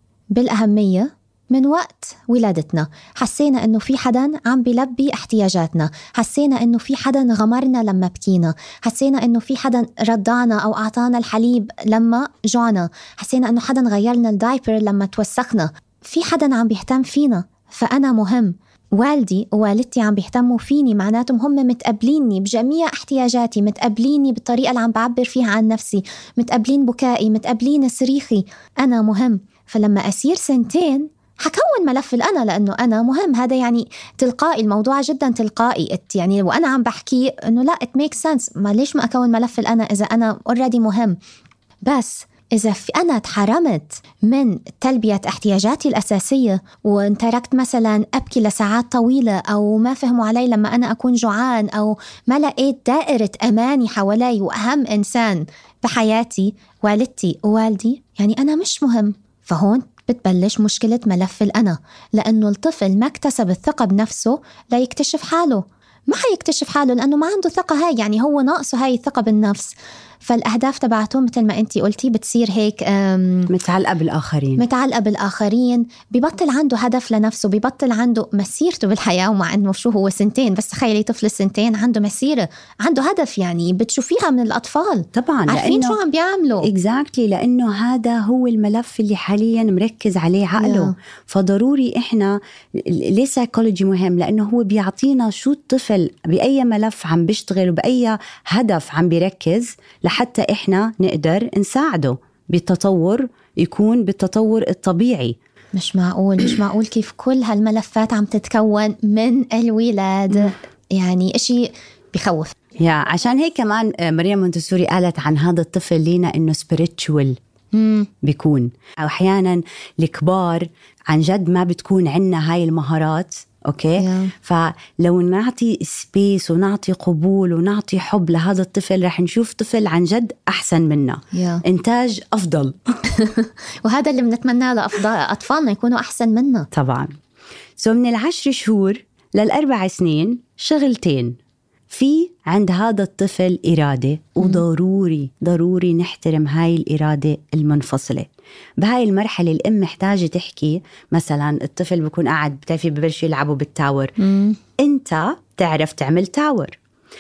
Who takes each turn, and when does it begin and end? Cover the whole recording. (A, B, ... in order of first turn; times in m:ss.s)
0:00.4-0:41.2 A
0:41.9-1:13.5 A
1:13.5-1:14.6 B
1:14.6-1:26.7 A
1:25.2-1:26.0 B
1:26.6-1:45.4 B
1:30.6-1:30.9 A
1:45.8-1:52.5 A
1:52.8-1:57.4 B
1:57.7-1:58.1 A
1:58.2-2:12.8 B
2:04.0-2:04.3 A
2:11.3-2:11.6 A
2:13.1-2:16.7 A
2:16.7-2:17.1 B
2:17.8-2:21.4 B
2:21.9-2:28.3 B
2:28.8-2:34.1 B
2:34.2-2:34.6 A
2:34.8-2:36.8 B